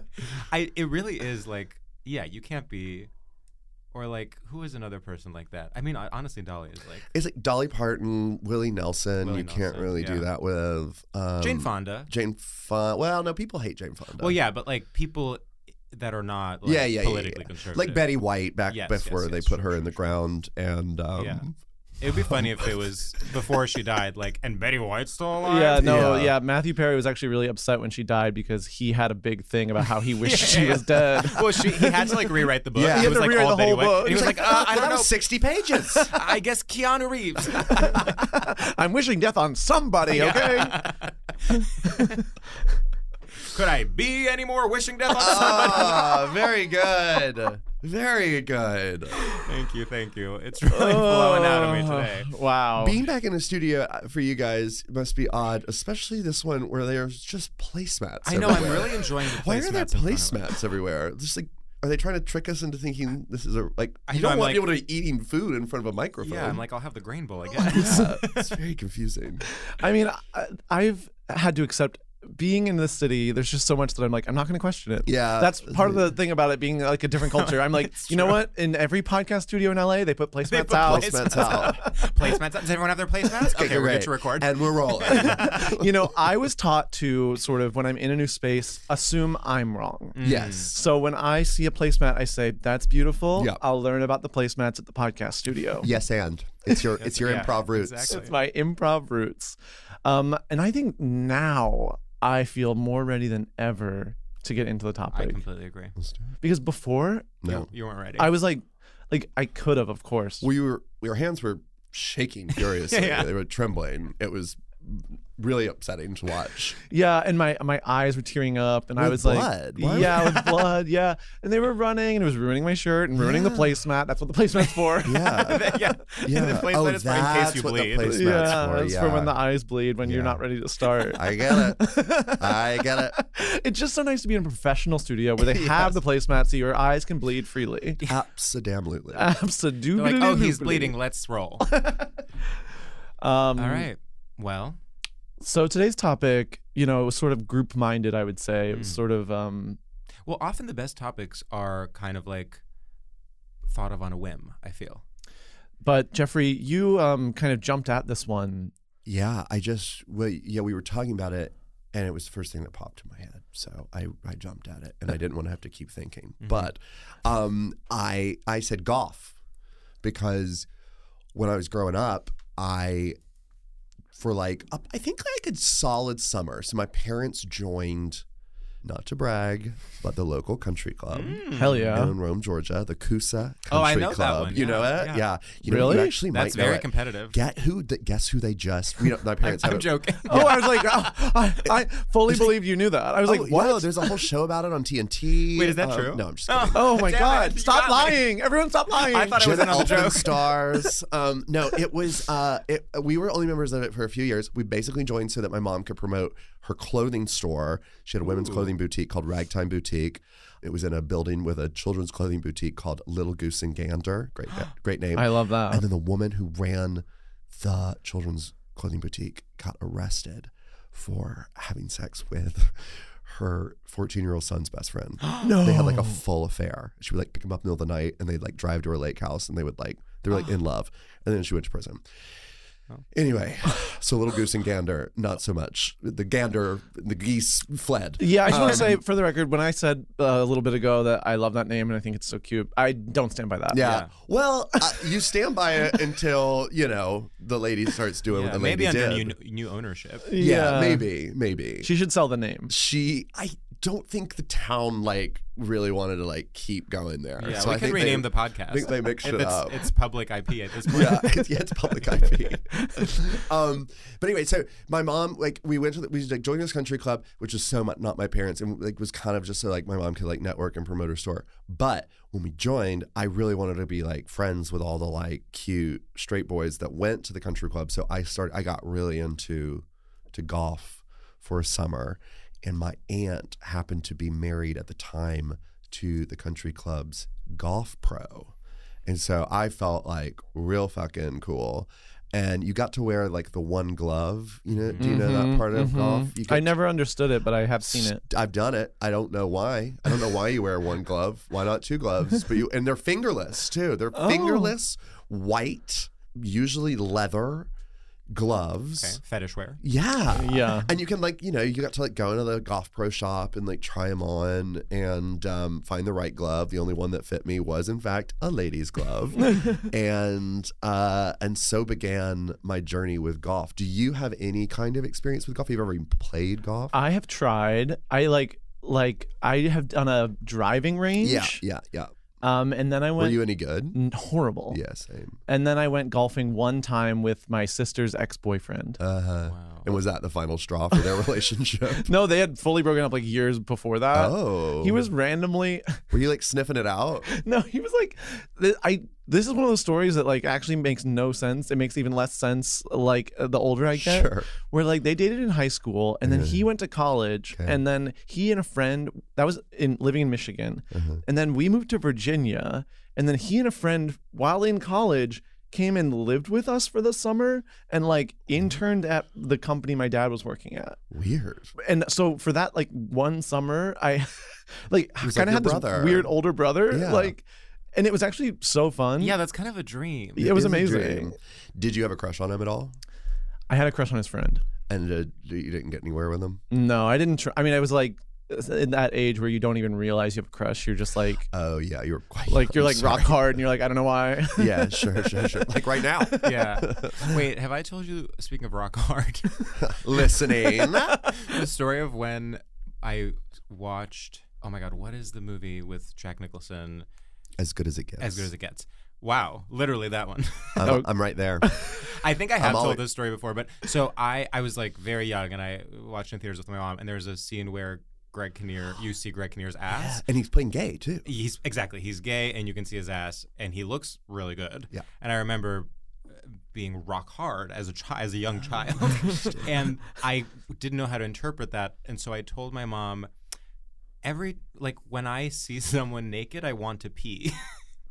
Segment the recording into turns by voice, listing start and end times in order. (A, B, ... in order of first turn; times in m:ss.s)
0:00.2-0:03.1 A
0:03.9-0:07.1 A
0:07.1-0:14.4 B
0:09.2-0:10.3 A
0:11.4-0:12.1 A
0:14.2-0:20.0 A
0:16.6-0:21.5 B
0:21.2-0:21.4 A
0:22.0-0:26.2 A
0:22.1-0:22.7 B
0:25.4-0:34.5 C
0:25.8-0:26.4 B
0:30.2-0:35.2 A
0:32.7-0:33.4 B
0:33.9-0:36.1 B
0:35.9-0:38.1 A
0:37.8-0:38.3 B
0:37.9-0:40.9 C
0:40.0-0:42.2 A
0:43.4-0:46.3 A
0:45.1-0:49.2 B
0:49.1-0:52.3 A
0:50.6-0:53.0 C
0:52.8-1:06.6 B
0:58.2-1:00.4 A
1:04.1-1:04.8 A
1:06.2-1:08.6 A
1:07.5-1:09.4 B
1:07.7-1:08.1 C
1:09.5-1:21.6 C
1:15.0-1:16.2 B
1:17.3-1:18.4 A
1:20.4-1:25.7 A
1:20.6-1:21.9 B
1:23.4-1:26.1 B
1:25.1-1:35.9 C
1:30.1-1:30.7 A
1:30.2-1:30.8 B
1:33.3-1:33.6 B
1:35.8-1:38.2 B
1:37.0-1:38.4 A
1:38.1-1:45.4 C
1:45.1-1:46.0 A
1:46.0-1:46.3 B
1:46.4-1:47.4 C
1:47.4-1:47.7 B
1:47.4-1:48.4 A
1:48.2-1:50.4 C
1:50.4-1:56.8 B
1:52.6-1:53.3 A
1:56.9-2:05.4 C
1:59.0-2:00.7 B
2:03.2-2:03.7 B
2:05.0-2:09.4 B
2:05.2-2:08.6 A
2:08.0-2:18.0 C
2:10.0-2:13.2 B
2:15.4-2:16.0 B
2:18.0-2:19.3 B
2:19.1-2:21.0 C
2:19.9-2:21.7 A
2:21.6-2:22.1 C
2:23.2-2:23.9 C
2:23.6-2:24.8 A
2:25.4-2:29.8 C
2:28.7-2:29.0 A
2:30.2-2:32.6 A
2:33.6-2:35.0 A
2:35.8-2:38.7 C
2:39.0-2:49.4 B
2:46.4-2:46.7 A
2:50.0-2:50.7 B
2:51.3-2:53.2 B
2:54.1-2:58.2 B
2:58.8-3:10.5 B
3:01.1-3:02.0 A
3:01.5-3:02.2 C
3:03.7-3:05.3 A
3:05.6-3:06.2 C
3:05.8-3:07.4 A
3:09.4-3:11.2 A
3:10.2-3:14.2 C
3:12.3-3:12.6 B
3:13.2-3:17.2 B
3:15.5-3:18.3 A
3:16.7-3:20.2 C
3:18.9-3:20.9 A
3:19.3-3:52.0 B
3:28.2-3:28.7 A
3:35.1-3:35.8 C
3:45.2-3:45.5 A
3:45.4-3:46.2 C
3:53.1-3:59.0 B
3:58.2-4:03.8 C
3:58.5-3:58.8 A
4:03.7-4:09.3 B
4:03.7-4:04.1 A
4:08.3-4:10.3 A
4:10.2-4:11.1 C
4:10.4-4:11.9 B
4:11.8-4:12.7 C
4:12.7-4:19.9 B
4:17.4-4:21.4 A
4:20.8-4:48.5 B
4:49.0-4:56.8 B
4:54.7-4:55.4 A
4:55.0-4:58.2 C
4:57.8-5:07.7 B
5:04.1-5:04.7 C
5:08.3-5:09.2 B
5:09.0-5:09.8 A
5:09.8-5:27.0 B
5:10.3-5:10.9 C
5:19.5-5:19.8 C
5:26.9-5:31.6 C
5:31.2-5:32.1 B
5:32.4-5:34.8 C
5:33.2-5:34.0 B
5:34.7-5:35.4 B
5:35.5-5:39.0 C
5:39.0-5:42.1 B
5:39.5-5:40.0 A
5:42.0-5:46.0 C
5:44.1-5:45.1 B
5:46.1-5:47.3 B
5:47.3-6:11.0 C
5:53.9-5:54.5 B
5:56.2-5:56.7 B
5:57.5-5:57.8 B
6:00.9-6:01.2 B
6:08.5-6:08.8 B
6:11.1-6:11.7 B
6:11.8-6:19.4 C
6:15.2-6:16.4 B
6:16.9-6:17.3 B
6:19.2-6:20.5 A
6:20.4-6:21.3 C
6:20.4-6:23.0 B
6:23.7-6:24.6 C
6:24.8-6:26.6 B
6:26.7-6:31.5 C
6:31.5-6:33.6 B
6:32.5-6:35.7 C
6:34.5-6:37.3 B
6:36.4-6:39.7 A
6:39.8-6:41.3 B
6:41.3-6:47.0 A
6:47.6-6:48.5 B
6:48.2-6:51.0 A
6:50.8-6:51.7 B
6:50.8-6:51.1 C
6:51.6-6:51.9 C
6:52.0-7:00.2 A
6:52.6-6:53.0 B
6:59.9-7:01.3 B
7:01.2-7:13.3 A
7:09.0-7:09.6 B
7:14.2-7:17.8 A